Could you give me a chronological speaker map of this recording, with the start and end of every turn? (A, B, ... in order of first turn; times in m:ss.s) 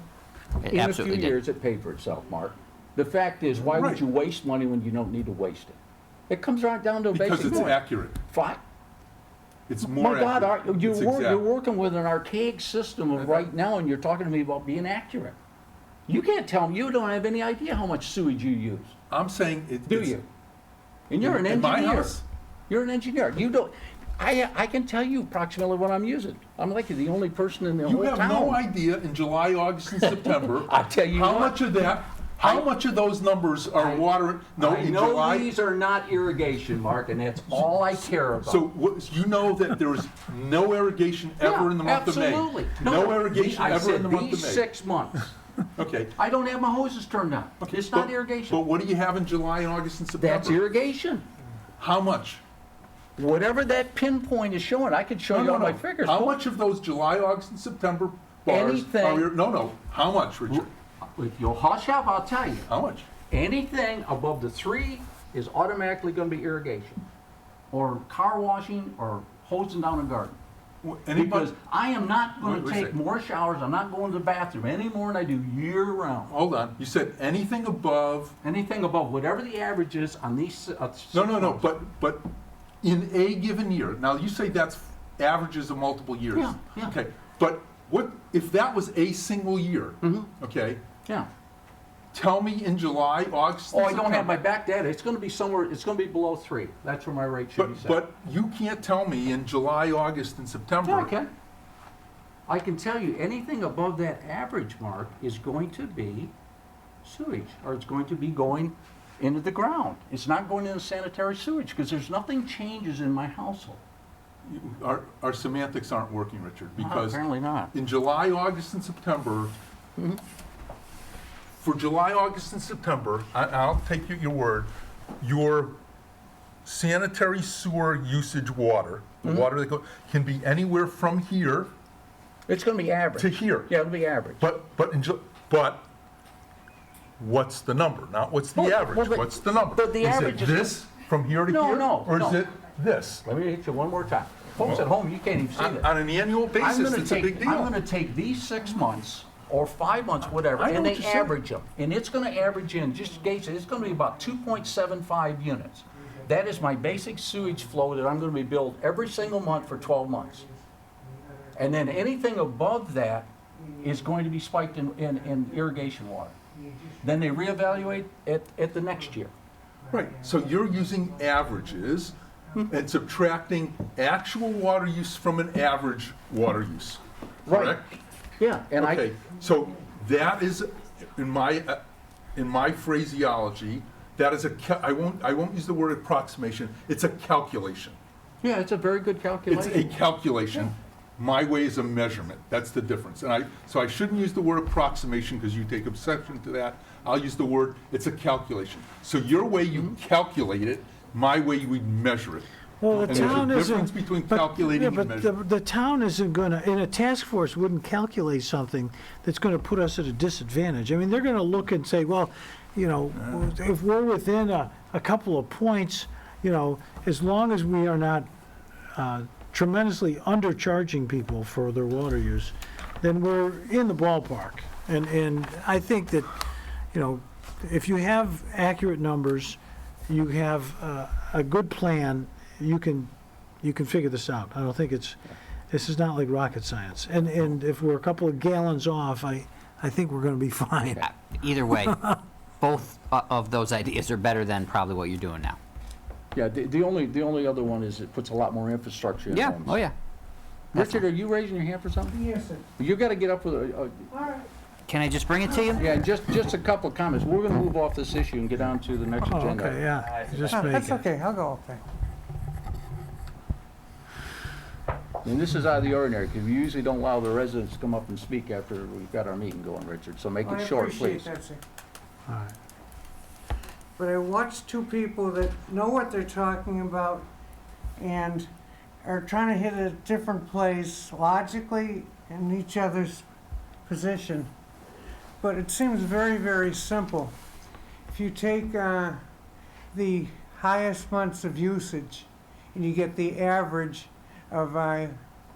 0:00.6-0:05.8 A
0:00.6-0:01.4 B
0:03.6-0:04.0 C
0:06.3-0:08.6 A
0:07.1-0:08.2 C
0:09.7-0:11.4 C
0:09.8-0:15.4 A
0:13.2-0:13.5 C
0:16.1-0:19.0 A
0:19.1-0:20.2 C
0:19.9-0:20.2 A
0:21.1-0:28.6 A
0:21.2-0:22.2 C
0:27.8-0:35.6 C
0:30.0-0:31.6 A
0:32.4-0:32.7 A
0:33.8-0:38.7 A
0:37.5-0:44.6 C
0:41.4-0:45.3 A
0:45.8-0:46.1 C
0:46.2-0:48.6 A
0:47.6-0:50.6 C
0:50.2-0:51.3 A
0:51.8-0:52.4 C
0:53.2-0:56.4 A
0:55.3-1:00.7 C
0:58.5-0:59.4 A
1:00.5-1:02.7 A
1:02.7-1:03.1 C
1:03.3-1:07.0 A
1:07.7-1:10.4 A
1:10.8-1:11.5 C
1:11.1-1:16.3 A
1:12.4-1:13.0 C
1:16.3-1:18.3 C
1:18.4-1:21.6 A
1:21.1-1:22.3 C
1:22.8-1:30.8 C
1:26.3-1:27.0 A
1:30.0-1:30.3 A
1:32.1-1:34.4 C
1:33.7-1:38.1 A
1:37.6-1:41.1 C
1:40.8-1:41.3 A
1:42.5-1:46.3 A
1:47.0-1:53.8 A
1:54.4-1:59.6 C
1:56.8-1:57.7 A
2:01.6-2:05.8 C
2:06.6-2:11.7 C
2:12.5-2:14.4 A
2:13.2-2:13.8 C
2:14.4-2:15.8 C
2:17.2-2:23.2 C
2:18.5-2:20.8 A
2:21.5-2:22.4 A
2:23.2-2:25.9 A
2:24.6-2:24.9 C
2:25.5-2:27.7 C
2:26.6-2:40.4 A
2:30.5-2:31.3 C
2:32.5-2:34.7 D
2:35.9-2:37.9 D
2:38.8-2:42.0 D
2:41.5-2:43.3 A
2:43.5-2:44.3 D
2:43.8-2:46.3 A
2:45.1-2:45.8 D
2:46.5-2:48.0 D
2:47.0-2:49.3 A
2:49.8-2:51.9 D
2:49.9-2:52.1 C
2:52.7-2:58.0 C
2:57.5-2:57.8 A
2:58.4-2:59.1 A
2:58.8-3:01.8 C
3:02.3-3:08.0 C
3:08.4-3:09.9 A
3:09.5-3:25.4 C
3:22.8-3:38.3 E
3:33.2-3:33.4 C
3:38.9-3:46.4 E
3:46.9-3:53.1 E
3:53.6-4:01.1 E
4:00.9-4:02.0 B
4:01.7-4:02.2 E
4:02.6-4:05.6 B
4:06.3-4:09.8 A
4:09.3-4:09.9 B
4:10.7-4:11.0 B
4:10.7-4:12.2 A
4:12.1-4:12.7 D
4:12.8-4:14.1 A
4:14.1-4:14.5 D
4:14.9-4:15.9 B
4:15.4-4:16.1 D
4:15.8-4:20.4 A
4:19.2-4:21.0 E
4:20.5-4:21.8 D
4:25.2-4:31.3 A
4:30.4-4:31.6 D
4:32.3-4:32.5 E
4:34.0-4:37.3 D
4:38.0-4:38.5 D
4:39.0-4:43.2 D
4:43.8-4:44.5 D
4:45.4-4:47.4 D
4:48.1-4:49.2 D
4:49.9-4:55.2 D